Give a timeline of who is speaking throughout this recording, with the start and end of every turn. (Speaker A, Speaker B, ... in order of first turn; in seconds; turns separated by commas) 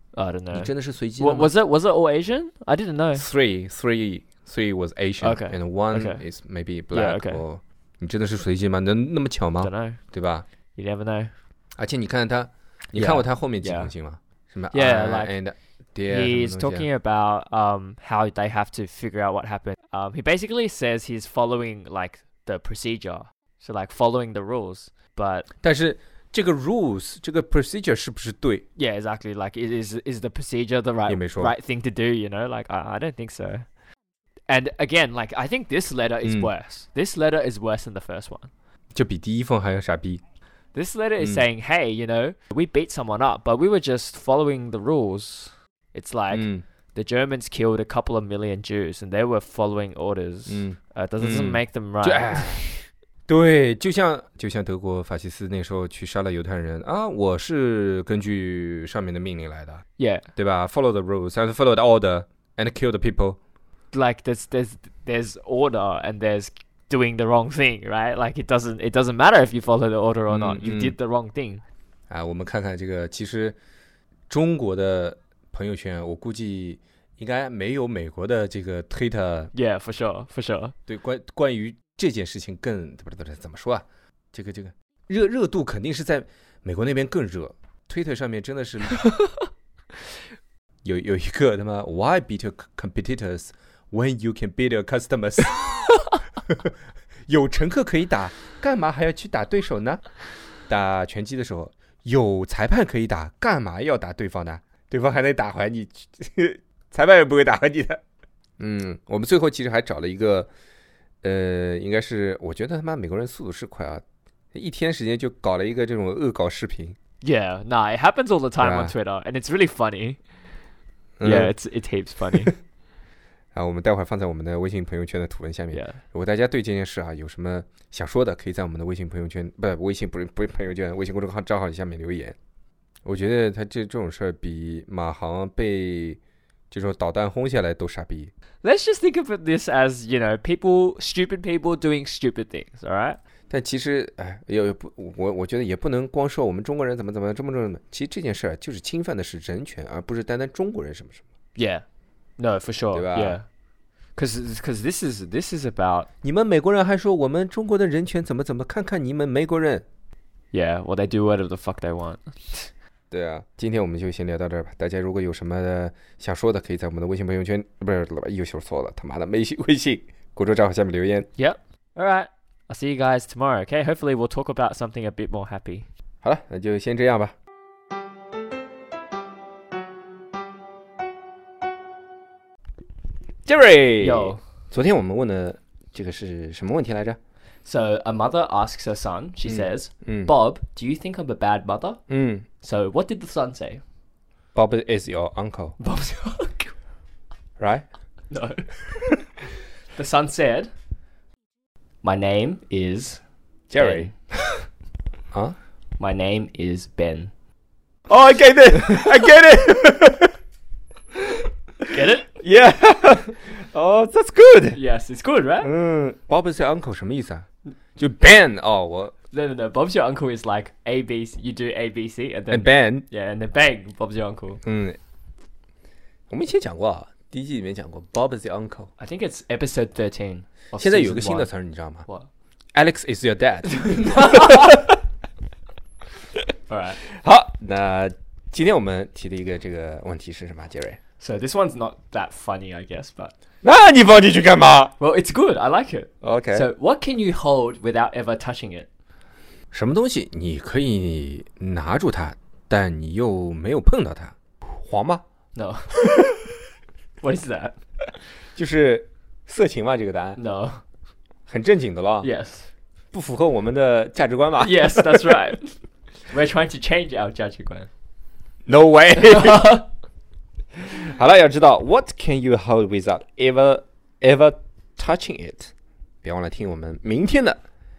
Speaker A: 0.1-3.3, Speaker B: 0.5-1.5, Speaker B: 3.1-10.5, Speaker A: 5.2-6.2, Speaker A: 6.9-7.4, Speaker A: 9.6-10.0, Speaker A: 10.8-11.3, Speaker B: 11.8-16.9, Speaker A: 12.9-13.9, Speaker A: 14.7-15.3, Speaker A: 16.1-25.5, Speaker B: 25.6-28.6, Speaker A: 28.8-33.7, Speaker B: 31.1-31.5, Speaker A: 34.5-38.5, Speaker B: 36.2-36.5, Speaker B: 38.9-40.2, Speaker A: 40.7-52.7, Speaker B: 41.2-41.5, Speaker B: 46.3-46.6, Speaker B: 50.5-52.7, Speaker B: 53.3-59.8, Speaker A: 60.0-60.3, Speaker B: 60.4-63.4, Speaker A: 63.9-71.6, Speaker B: 70.3-71.0, Speaker B: 72.1-73.6, Speaker B: 74.3-79.5, Speaker A: 79.5-80.8, Speaker B: 80.9-89.1, Speaker A: 89.0-89.3, Speaker B: 90.8-96.7, Speaker B: 97.3-100.0, Speaker B: 100.7-108.0, Speaker B: 108.6-110.5, Speaker B: 111.2-117.0, Speaker A: 117.2-120.2, Speaker B: 118.6-119.0, Speaker B: 121.2-121.5, Speaker A: 121.2-122.5, Speaker B: 123.5-132.4, Speaker A: 125.7-126.0, Speaker B: 133.1-136.2, Speaker B: 136.7-138.3, Speaker A: 138.6-143.2, Speaker B: 143.5-151.2, Speaker A: 151.6-151.8, Speaker A: 152.4-153.5, Speaker B: 152.9-153.4, Speaker A: 154.2-156.1, Speaker B: 156.2-159.8, Speaker A: 160.5-162.7, Speaker B: 163.1-171.3, Speaker A: 171.3-175.9, Speaker B: 176.2-177.3, Speaker B: 183.4-187.2, Speaker A: 184.0-184.4, Speaker A: 187.6-192.0, Speaker B: 189.5-190.3, Speaker B: 192.1-192.4, Speaker A: 192.6-193.8, Speaker B: 194.5-195.8, Speaker A: 195.8-196.7, Speaker B: 197.6-197.9, Speaker A: 198.3-198.9, Speaker A: 199.9-200.7, Speaker A: 202.0-203.2, Speaker B: 203.7-204.2, Speaker A: 203.8-204.1, Speaker A: 206.0-207.3, Speaker B: 208.1-210.3, Speaker A: 211.9-212.3, Speaker B: 212.3-214.8, Speaker A: 214.7-215.7, Speaker B: 215.6-217.5, Speaker B: 218.0-219.1, Speaker A: 219.3-224.6, Speaker B: 222.5-223.1, Speaker B: 224.6-225.0, Speaker B: 226.3-228.9, Speaker A: 229.0-231.5, Speaker B: 230.8-232.1, Speaker B: 232.8-235.0, Speaker A: 233.8-234.7, Speaker A: 236.7-237.0, Speaker B: 237.0-241.0, Speaker A: 241.2-243.3, Speaker B: 243.6-244.9, Speaker A: 245.0-248.9, Speaker B: 246.2-246.7, Speaker B: 249.7-255.2, Speaker A: 255.6-256.4, Speaker B: 256.0-256.3, Speaker A: 257.2-257.8, Speaker B: 258.6-260.4, Speaker A: 260.4-260.8, Speaker B: 261.5-262.3, Speaker A: 262.2-262.7, Speaker B: 263.1-265.6, Speaker A: 264.6-267.9, Speaker B: 268.7-269.8, Speaker A: 269.2-269.9, Speaker B: 270.8-275.7, Speaker B: 276.2-277.6